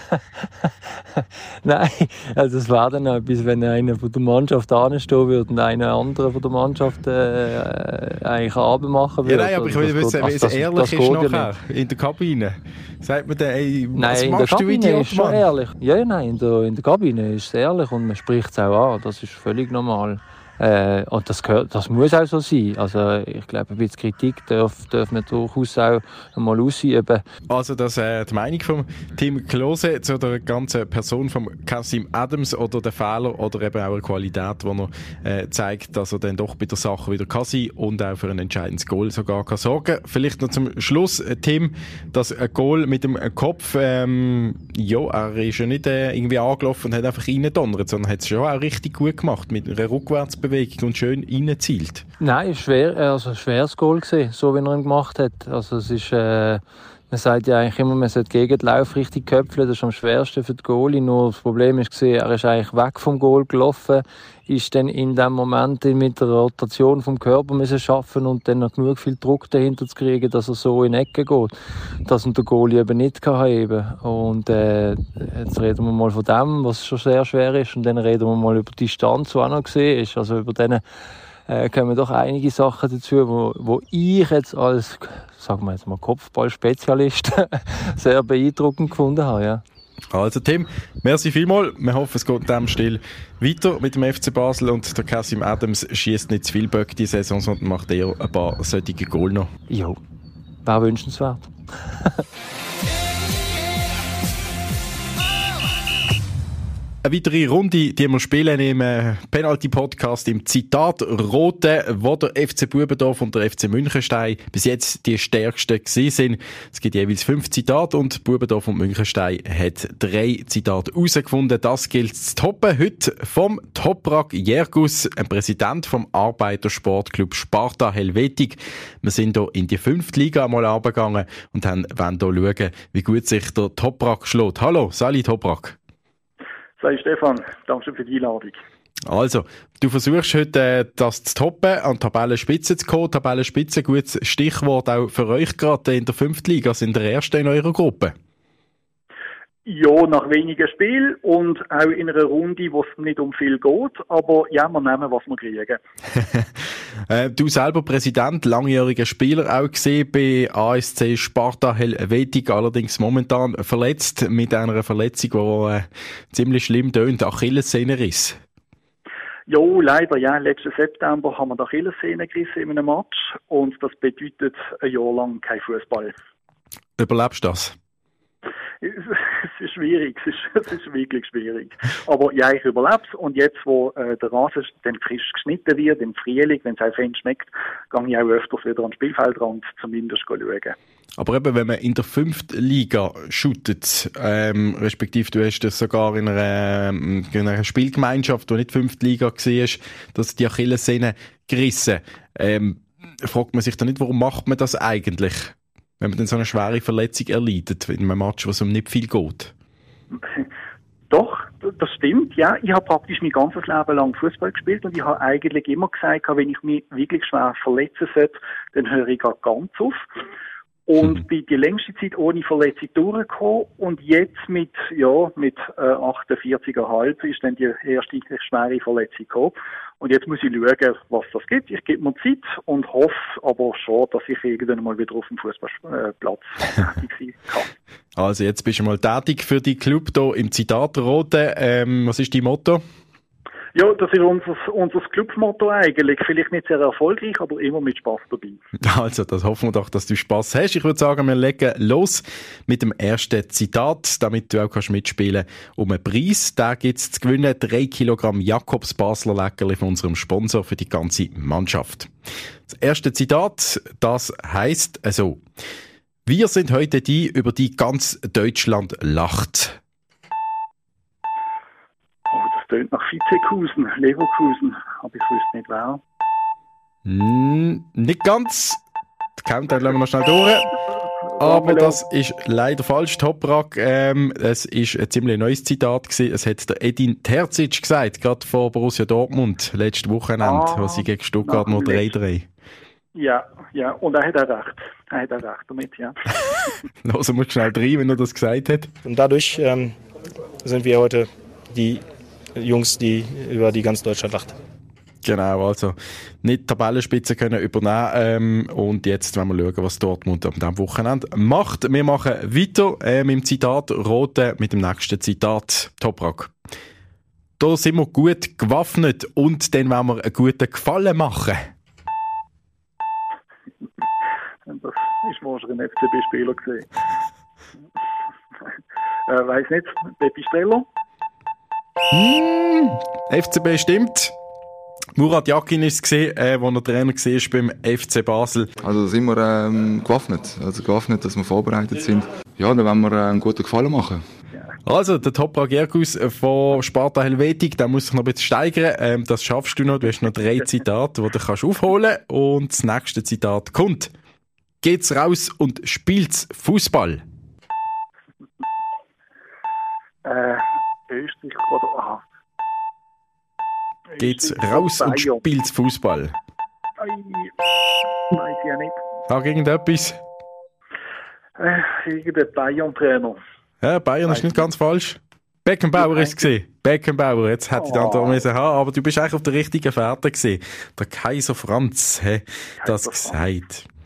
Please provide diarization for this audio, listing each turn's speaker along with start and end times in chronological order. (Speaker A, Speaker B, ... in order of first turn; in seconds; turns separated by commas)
Speaker A: 0.1-11.5, Speaker B: 9.3-15.4, Speaker A: 13.9-27.2, Speaker B: 27.5-52.0, Speaker A: 52.2-71.5, Speaker A: 72.0-80.8, Speaker A: 81.5-89.6, Speaker B: 90.1-99.5, Speaker A: 99.7-100.0, Speaker A: 100.7-102.2, Speaker B: 107.0-135.8, Speaker C: 136.8-138.6, Speaker B: 139.1-148.2, Speaker C: 149.7-155.8, Speaker B: 156.2-156.5, Speaker B: 157.1-168.4, Speaker C: 169.5-176.2, Speaker B: 177.0-177.8, Speaker C: 178.8-190.8, Speaker B: 191.2-209.5, Speaker C: 210.2-210.5, Speaker C: 211.1-220.0, Speaker C: 220.9-237.7, Speaker B: 238.2-242.8, Speaker C: 243.8-248.6, Speaker B: 248.8-262.1, Speaker B: 262.7-265.4, Speaker B: 266.3-269.8, Speaker C: 272.3-276.0, Speaker B: 277.1-278.8, Speaker B: 279.4-280.7, Speaker C: 281.4-282.0, Speaker B: 281.4-292.5, Speaker C: 290.4-292.2, Speaker C: 293.1-296.2, Speaker B: 297.1-298.9, Speaker D: 299.1-299.9, Speaker D: 300.6-302.0, Speaker D: 302.6-304.6, Speaker B: 305.2-316.5, Speaker B: 317.6-321.7, Speaker C: 324.7-326.9, Speaker C: 329.3-330.9, Speaker B: 332.1-334.3, Speaker B: 335.2-338.7, Speaker E: 338.8-344.2, Speaker B: 344.9-354.1, Speaker B: 354.8-357.2, Speaker C: 360.2-362.2, Speaker C: 364.1-365.4, Speaker B: 364.2-366.4, Speaker C: 367.0-367.6, Speaker C: 368.3-369.0, Speaker B: 369.3-370.2, Speaker C: 371.6-373.4, Speaker B: 373.8-383.9, Speaker C: 374.3-374.6, Speaker C: 376.0-376.4, Speaker C: 377.8-378.4, Speaker C: 382.8-383.4